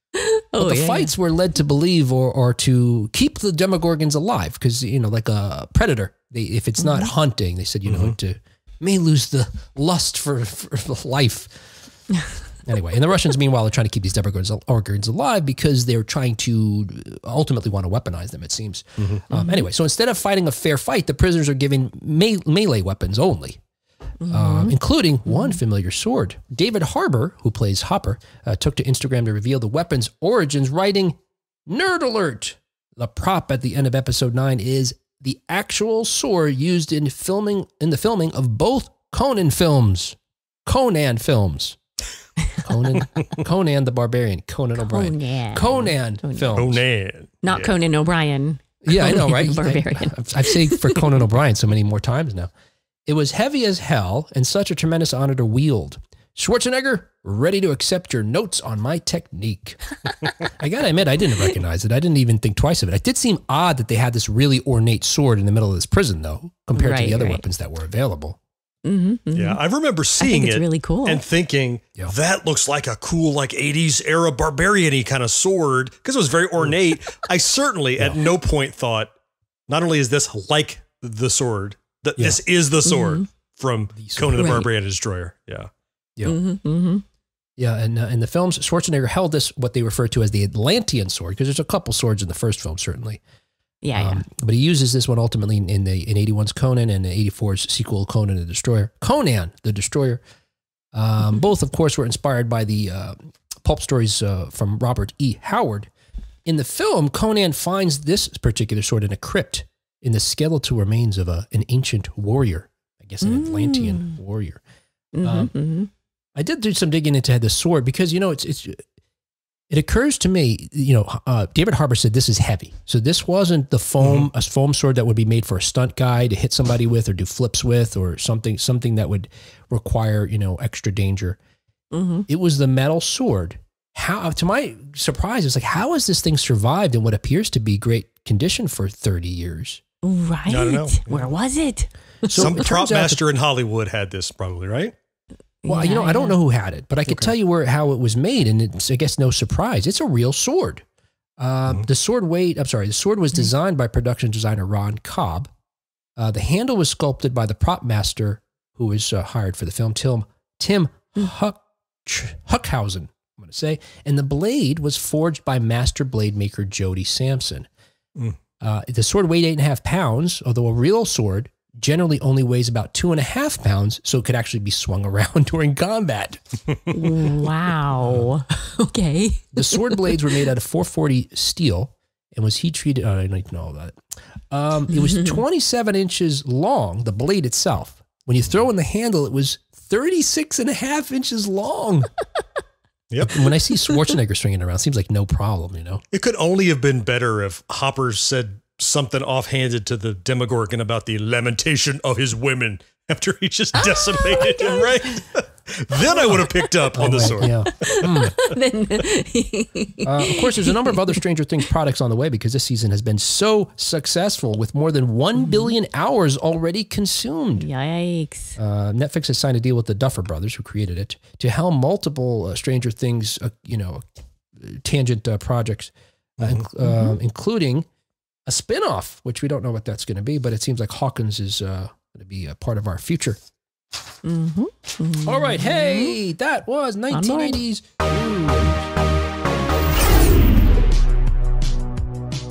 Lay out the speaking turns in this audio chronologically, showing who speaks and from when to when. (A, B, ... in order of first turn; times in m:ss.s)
0:00.2-0:01.1 A
0:00.6-0:11.6 B
0:06.8-0:07.1 A
0:07.8-0:08.2 C
0:12.6-0:23.6 B
0:19.3-0:19.6 A
0:24.2-0:24.8 A
0:24.3-0:41.8 B
0:25.3-0:25.6 A
0:42.6-0:46.8 B
0:44.8-0:46.6 A
0:46.5-0:47.7 C
0:47.4-0:51.0 A
0:48.8-0:52.5 B
0:53.1-0:59.8 B
1:00.5-1:08.4 B
1:06.7-1:07.4 A
1:08.8-1:09.6 A
1:09.3-1:19.1 C
1:10.2-1:11.2 A
1:19.7-1:25.7 C
1:22.8-1:23.2 A
1:24.0-1:24.6 B
1:24.4-1:24.7 A
1:26.2-1:27.0 A
1:27.6-1:33.2 B
1:33.8-1:34.2 A
1:33.9-1:40.2 B
1:40.9-1:45.9 B
1:46.4-1:54.6 B
1:53.2-1:54.2 A
1:55.1-1:55.9 A
1:55.2-1:55.5 B
1:56.3-1:58.8 B
1:59.7-2:11.4 B
2:11.9-2:12.3 A
2:12.3-2:19.8 B
2:20.0-2:22.6 A
2:20.5-2:21.2 C
2:22.2-2:23.2 B
2:22.3-2:24.9 C
2:25.6-2:26.4 A
2:25.7-2:30.8 B
2:31.4-2:35.5 B
2:36.2-2:47.7 B
2:48.6-2:56.4 B
2:56.9-3:00.2 A
2:59.5-3:04.0 B
3:04.5-3:12.1 B
3:04.9-3:05.4 A
3:13.1-3:13.4 C
3:13.2-3:16.0 B
3:16.1-3:28.0 C
3:23.8-3:25.0 A
3:26.9-3:28.4 B
3:27.7-3:31.1 A
3:30.0-3:37.7 B
3:35.4-3:35.7 A
3:37.6-3:38.6 A
3:38.6-3:44.0 B
3:44.6-3:47.8 B
3:46.8-3:47.2 A
3:48.5-3:53.4 B
3:54.2-3:56.1 A
3:55.2-3:58.9 B
3:57.1-3:57.6 A